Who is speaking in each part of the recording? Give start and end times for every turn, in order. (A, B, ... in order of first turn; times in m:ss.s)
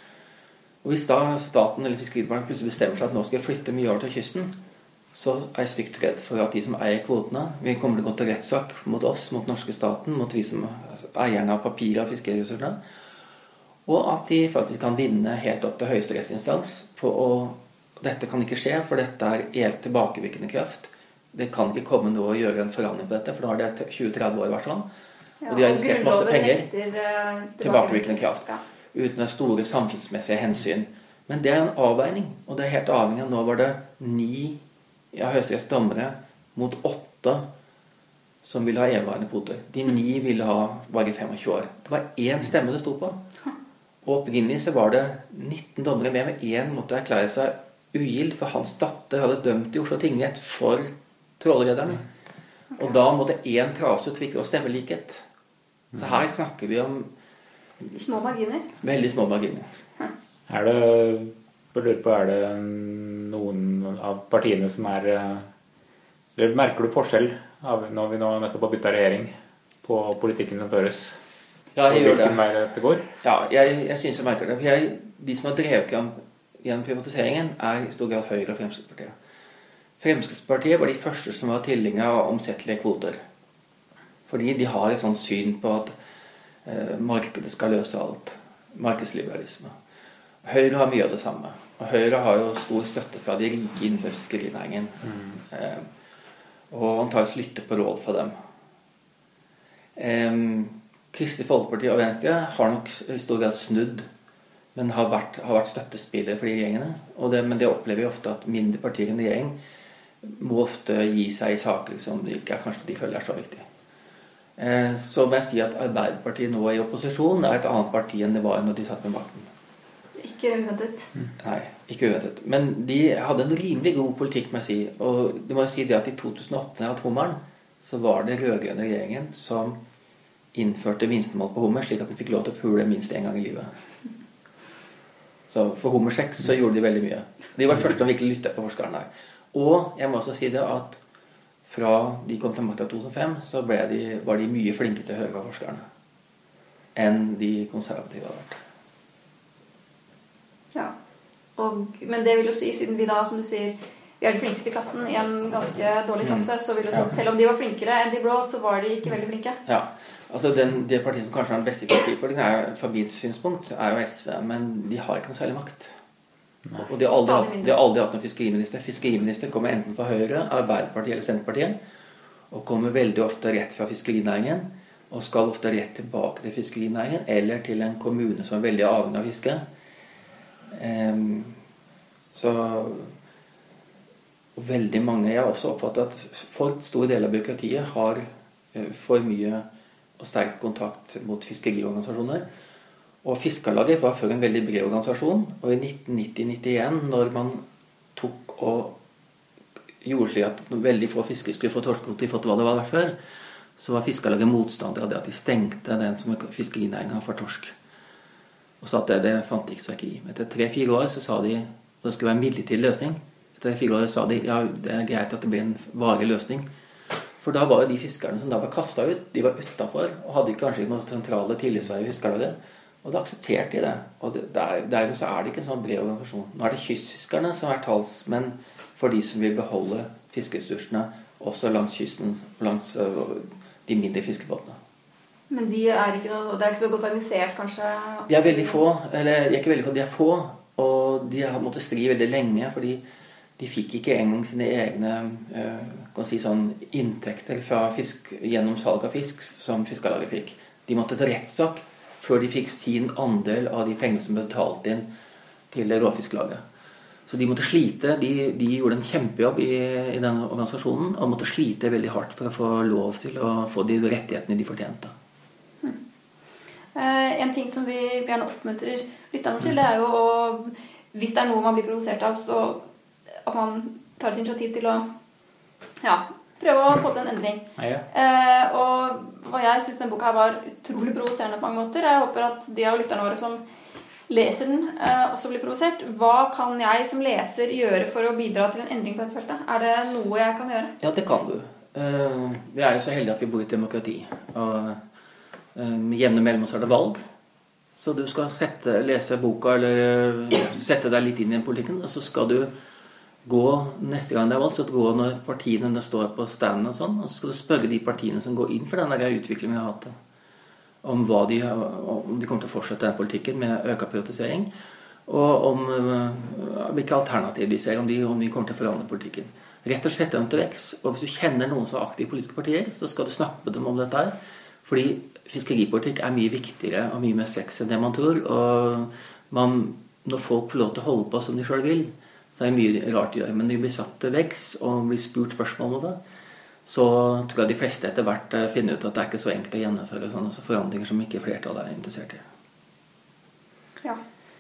0:00.8-0:04.6 A
0:05.2-0:12.8 A
0:13.9-0:24.9 A
0:25.4-0:28.6 B
0:25.5-0:26.7 A
0:27.6-0:28.4 A
0:28.9-0:34.6 A
0:35.1-0:37.4 A
0:38.4-0:43.2 A
0:44.0-0:52.0 A
0:52.8-0:55.3 A
0:56.0-0:57.1 A
0:58.0-0:58.7 B
0:58.8-0:59.7 A
1:00.5-1:05.5 C
1:06.4-1:11.2 C
1:11.8-1:12.4 A
1:11.9-1:13.1 C
1:13.2-1:19.1 A
1:20.0-1:23.2 A
1:24.3-1:25.9 A
1:26.6-1:29.7 A
1:30.4-1:35.9 A
1:36.7-1:38.3 A
1:40.0-1:44.1 A
1:44.8-1:49.6 A
1:50.2-1:53.6 A
1:54.6-1:59.5 A
2:00.2-2:01.1 B
2:01.4-2:09.8 A
2:10.5-2:13.7 A
2:15.5-2:21.0 A
2:21.7-2:25.8 A
2:27.0-2:28.6 A
2:31.6-2:39.6 B
2:36.2-2:37.1 A
2:39.7-2:45.9 A
2:46.8-2:51.8 A
2:47.0-2:47.8 B
2:52.5-2:59.6 A
3:00.7-3:01.6 A
3:02.3-3:03.1 A
3:04.6-3:09.7 A
3:10.2-3:12.5 A
3:13.2-3:17.6 A
3:18.2-3:19.0 A
3:20.0-3:23.2 A
3:23.8-3:27.7 A
3:28.8-3:36.7 A
3:37.4-3:54.8 A
3:55.5-3:58.8 B
3:58.3-4:03.0 A
4:03.6-4:15.1 A
4:15.7-4:16.6 A
4:17.3-4:25.1 A
4:27.0-4:32.8 B
4:33.4-4:35.0 B
4:36.0-4:43.6 B
4:37.8-4:38.0 C
4:44.3-4:50.9 B
4:51.0-4:55.0 A
4:55.8-4:57.2 A
4:58.0-5:02.7 A
5:03.4-5:10.1 A
5:11.0-5:14.7 A
5:15.3-5:36.2 A
5:36.9-5:42.4 A